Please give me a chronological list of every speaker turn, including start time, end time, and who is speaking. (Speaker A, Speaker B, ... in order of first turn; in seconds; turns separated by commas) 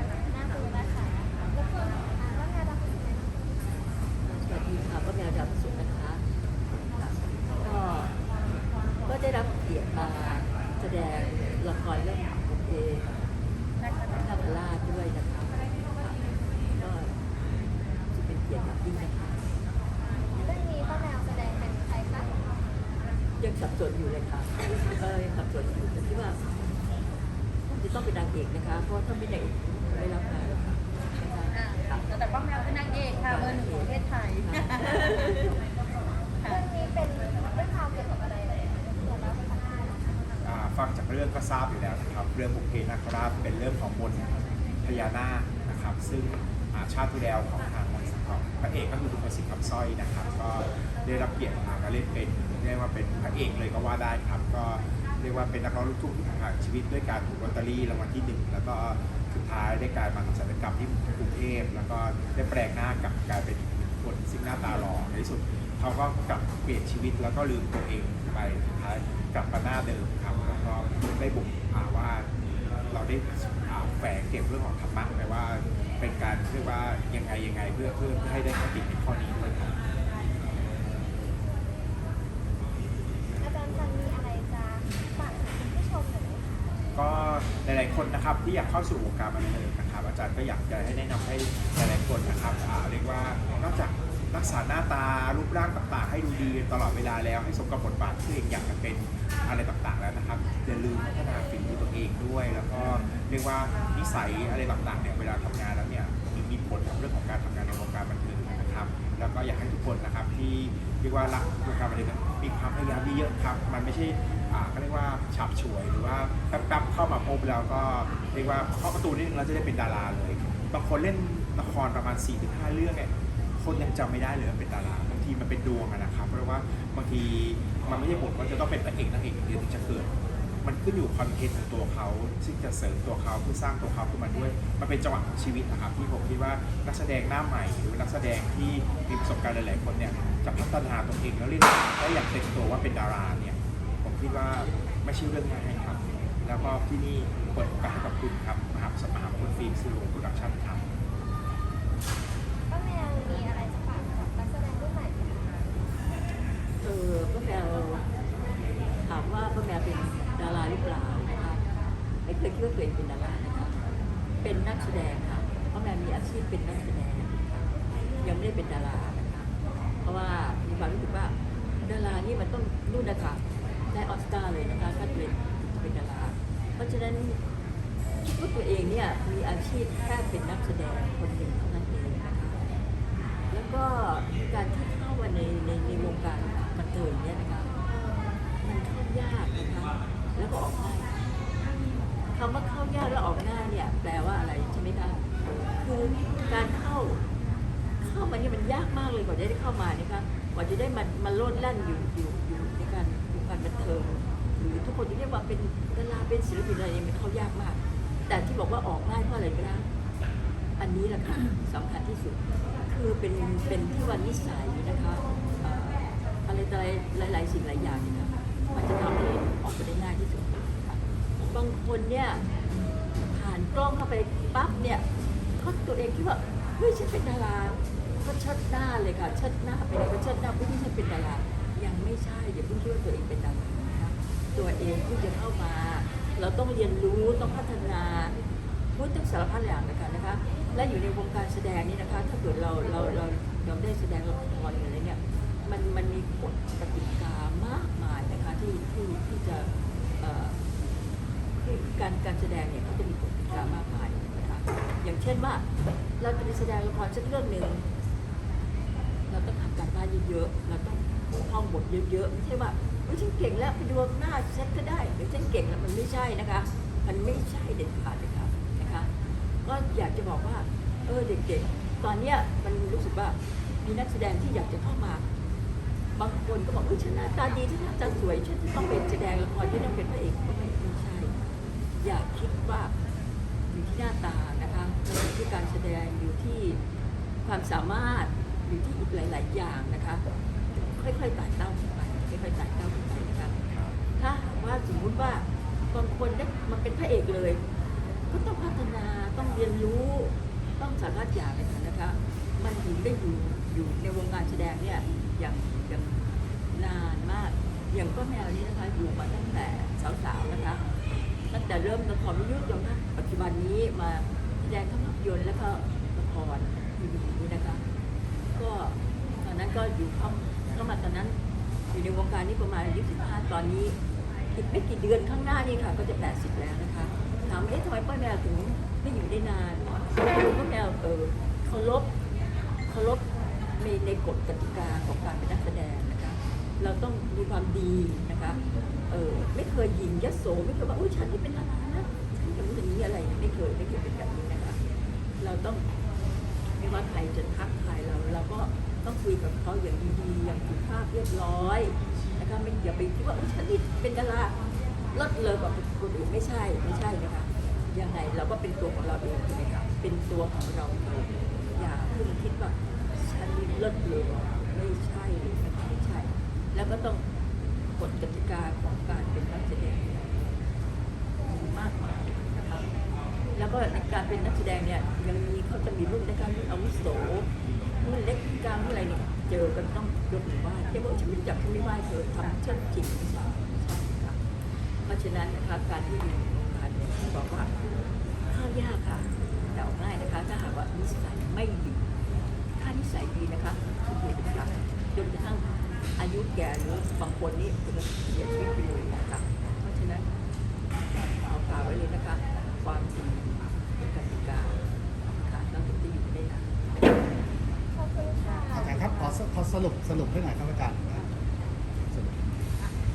Speaker A: 0.3-3.4, Speaker B: 4.3-6.2, Speaker B: 6.9-8.1, Speaker B: 9.1-13.2, Speaker C: 13.8-14.5, Speaker B: 14.1-16.2, Speaker B: 16.8-17.1, Speaker B: 18.1-19.4, Speaker A: 20.4-22.5, Speaker B: 23.4-26.4, Speaker B: 27.7-32.0, Speaker C: 31.5-35.5, Speaker B: 33.1-35.6, Speaker A: 36.5-40.0, Speaker D: 40.4-44.3, Speaker D: 44.8-72.3, Speaker D: 72.9-79.8, Speaker A: 83.4-86.8, Speaker D: 87.0-123.1, Speaker D: 123.6-130.1, Speaker D: 130.6-150.8, Speaker A: 152.7-155.6, Speaker B: 156.8-158.1, Speaker B: 159.0-161.6, Speaker B: 162.3-163.8, Speaker B: 164.4-167.6, Speaker B: 168.2-169.5, Speaker B: 170.0-177.4, Speaker B: 178.2-182.8, Speaker B: 183.5-187.8, Speaker B: 188.6-191.1, Speaker B: 192.3-195.2, Speaker B: 195.8-197.2, Speaker B: 198.0-209.9, Speaker B: 210.8-222.4, Speaker B: 223.3-225.0, Speaker B: 225.6-238.3, Speaker B: 238.9-250.6, Speaker B: 251.6-255.7, Speaker B: 256.2-257.8, Speaker B: 259.3-269.1, Speaker B: 269.6-275.2, Speaker B: 276.2-281.4, Speaker B: 282.0-282.9, Speaker B: 283.7-286.8, Speaker B: 287.4-290.2, Speaker B: 290.8-293.6, Speaker B: 294.2-297.6, Speaker B: 298.3-306.2, Speaker B: 306.7-310.8, Speaker B: 311.5-317.8, Speaker B: 318.6-321.4, Speaker B: 321.9-324.0, Speaker B: 324.5-332.1, Speaker B: 332.9-333.2, Speaker B: 333.8-344.8, Speaker B: 345.4-345.9, Speaker B: 346.8-354.6, Speaker B: 355.1-367.2, Speaker B: 368.0-370.4, Speaker B: 371.4-372.9, Speaker B: 373.6-377.5, Speaker B: 378.0-384.4, Speaker B: 385.1-387.7, Speaker B: 388.5-392.0, Speaker B: 392.8-400.2, Speaker B: 401.4-406.7, Speaker A: 407.9-409.4, Speaker E: 408.7-411.3, Speaker E: 412.1-412.4